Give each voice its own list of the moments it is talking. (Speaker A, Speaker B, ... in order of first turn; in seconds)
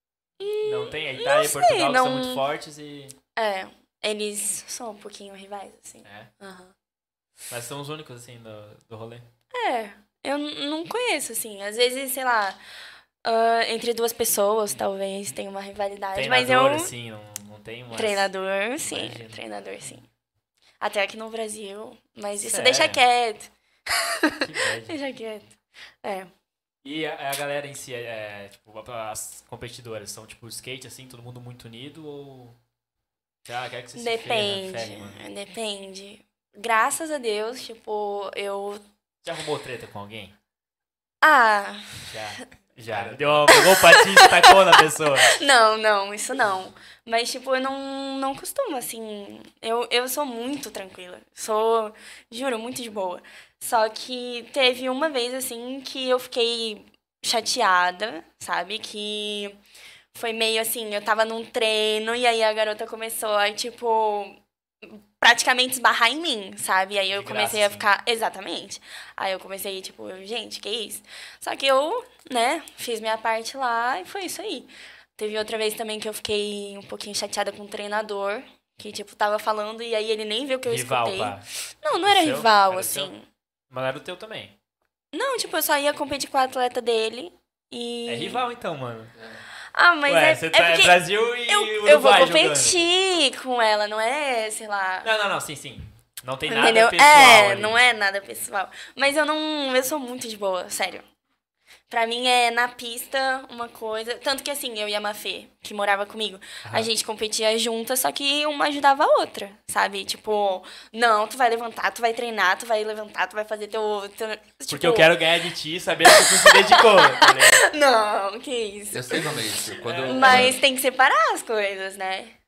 Speaker A: 0.4-2.4, 3.4-6.7, 9.5-12.6, 13.2-16.9, 17.9-20.1, 20.8-26.3, 34.0-38.9, 41.2-42.1, 43.5-59.6, 60.1-83.3, 85.1-88.4, 89.7-95.1, 96.5-101.0, 101.9-115.2, 116.0-119.3, 120.0-122.4
Speaker B: 0.6-3.2, 6.0-6.3, 7.5-9.3, 16.1-18.3, 18.8-19.4, 22.4-23.0, 24.4-25.0, 26.8-32.6, 33.5-35.2, 39.2-40.4, 42.0-45.4, 67.1-67.9, 80.7-83.1, 83.7-84.5, 88.1-89.1, 90.1-92.8, 95.0-97.8, 106.6-106.9, 114.7-117.7, 119.8-120.6
Speaker C: 42.9-43.5, 89.2-89.5, 118.9-120.6